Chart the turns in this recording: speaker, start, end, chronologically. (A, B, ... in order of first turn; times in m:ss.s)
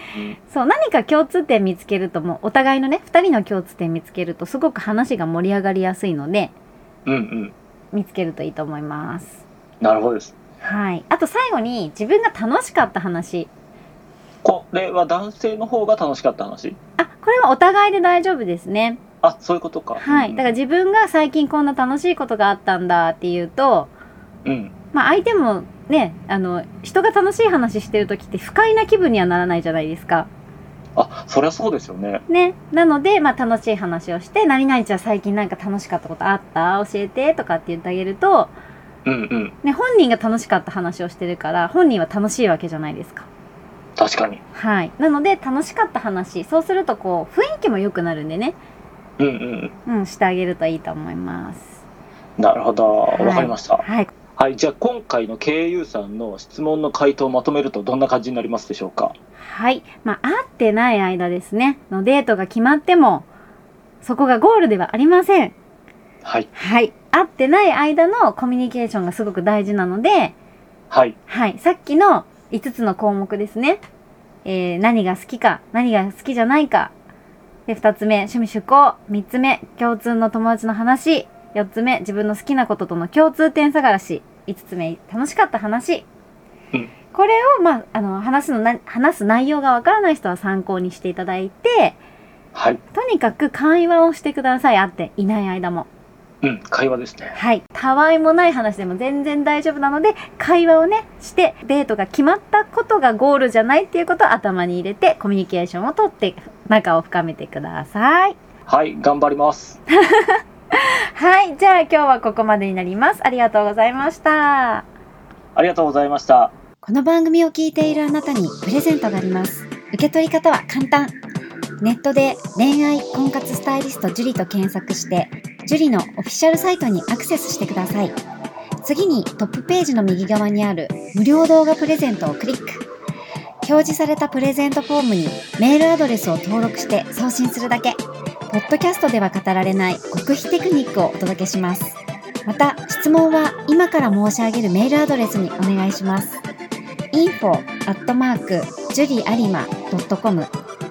0:00.5-0:06.5 A
0:07.1-0:07.6 B
0:07.9-0:09.4 A
0:09.8-0:10.4 B
0:10.6-0:13.5 A
0:14.4-0:16.8 B
0:17.0-0:19.0 A
0:19.2-0:20.5 B
0:20.0-0:23.9 A
0:24.4-0:24.7 B
0:24.9-0:30.3 A
0:31.0-0:32.2 B
0:32.3-0:38.5 A
0:39.0-0:39.6 B
0:39.6-0:43.3 A
0:44.0-0:44.4 B
0:44.5-0:48.6 A
0:49.2-0:49.7 B
0:49.9-0:51.8 A
0:52.4-0:53.8 B
0:53.2-0:54.1 A
0:54.4-0:59.2 B
0:59.4-1:03.2 A
1:04.0-1:05.5 A
1:06.6-1:10.3 A
1:10.9-1:11.2 B
1:11.3-1:13.8 A
1:14.4-1:16.9 A
1:17.7-1:26.1 A
1:27.1-1:32.0 A
1:32.5-1:32.8 B
1:32.9-1:35.9 A
1:36.4-1:37.4 B
1:37.4-1:48.4 A
1:48.7-1:49.8 B
1:49.9-1:54.9 A
1:55.6-1:56.5 B
1:56.8-2:01.2 C
2:01.8-2:08.2 C
2:08.8-2:12.8 C
2:13.6-2:26.4 C
2:27.1-2:30.5 C